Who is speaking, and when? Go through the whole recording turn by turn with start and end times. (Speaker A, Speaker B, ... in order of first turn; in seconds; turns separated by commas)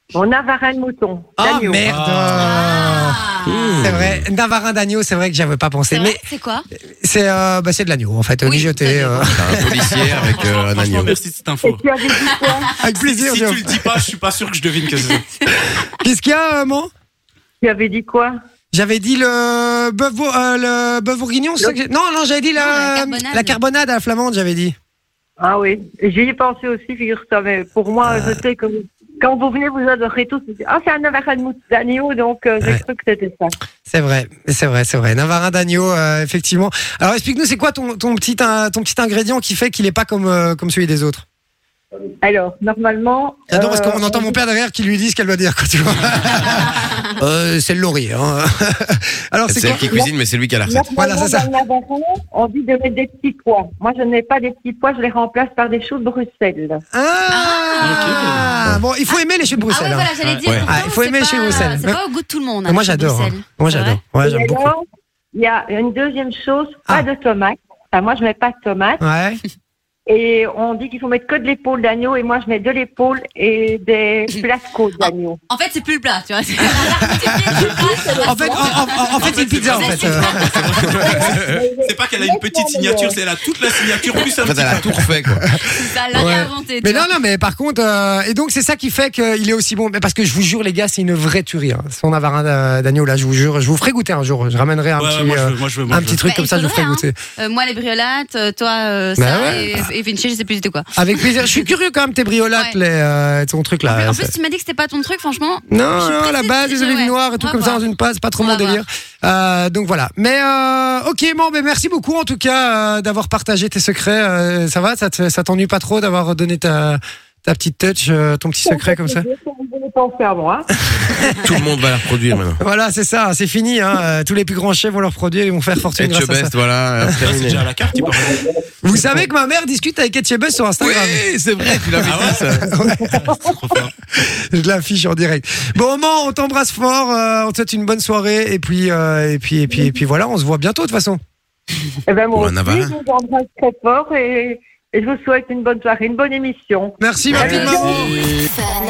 Speaker A: 0.1-1.9, Speaker B: 1.4-3.2, Speaker C: 1.9-2.7, Speaker D: 2.4-3.8, Speaker E: 3.4-4.3, Speaker B: 3.8-6.2, Speaker D: 5.9-6.7, Speaker B: 7.0-10.2, Speaker D: 8.4-9.8, Speaker E: 9.3-11.1, Speaker C: 9.9-11.8, Speaker A: 11.6-12.7, Speaker D: 12.2-12.7, Speaker B: 12.7-13.8, Speaker C: 12.9-15.3, Speaker B: 15.5-16.9, Speaker A: 17.6-18.3, Speaker B: 18.7-24.8, Speaker D: 22.6-23.6, Speaker A: 25.4-33.5, Speaker B: 28.0-28.4, Speaker B: 33.9-41.2, Speaker A: 42.2-44.4, Speaker B: 43.5-50.0, Speaker E: 49.5-50.9, Speaker A: 49.7-50.1, Speaker A: 50.6-56.8, Speaker B: 51.0-51.5, Speaker B: 56.9-60.1, Speaker D: 57.3-59.1, Speaker C: 57.8-58.5, Speaker D: 59.7-64.0, Speaker E: 60.4-60.7, Speaker B: 60.7-62.0, Speaker B: 62.7-64.7, Speaker A: 64.2-64.8, Speaker A: 65.3-69.0, Speaker B: 69.0-69.4, Speaker A: 70.1-75.4, Speaker D: 75.5-80.7, Speaker A: 77.5-78.7, Speaker B: 78.2-80.7, Speaker C: 79.0-85.0, Speaker E: 80.7-81.6, Speaker A: 81.0-83.2, Speaker E: 84.4-85.4, Speaker D: 85.6-87.1, Speaker B: 86.1-97.2, Speaker C: 95.0-96.2, Speaker D: 96.2-101.5, Speaker B: 99.2-99.9, Speaker B: 101.0-104.3, Speaker D: 103.9-107.8, Speaker B: 105.7-119.3, Speaker D: 108.4-108.8, Speaker A: 118.7-120.7, Speaker B: 121.0-121.5, Speaker E: 121.4-122.6, Speaker B: 122.6-127.2, Speaker E: 126.0-127.7, Speaker C: 127.2-128.5, Speaker B: 128.8-133.3, Speaker E: 130.8-132.7, Speaker C: 132.1-132.4, Speaker C: 133.2-133.9, Speaker B: 134.2-141.2, Speaker A: 142.1-148.2, Speaker E: 142.3-142.9, Speaker B: 147.0-148.1, Speaker D: 147.4-148.1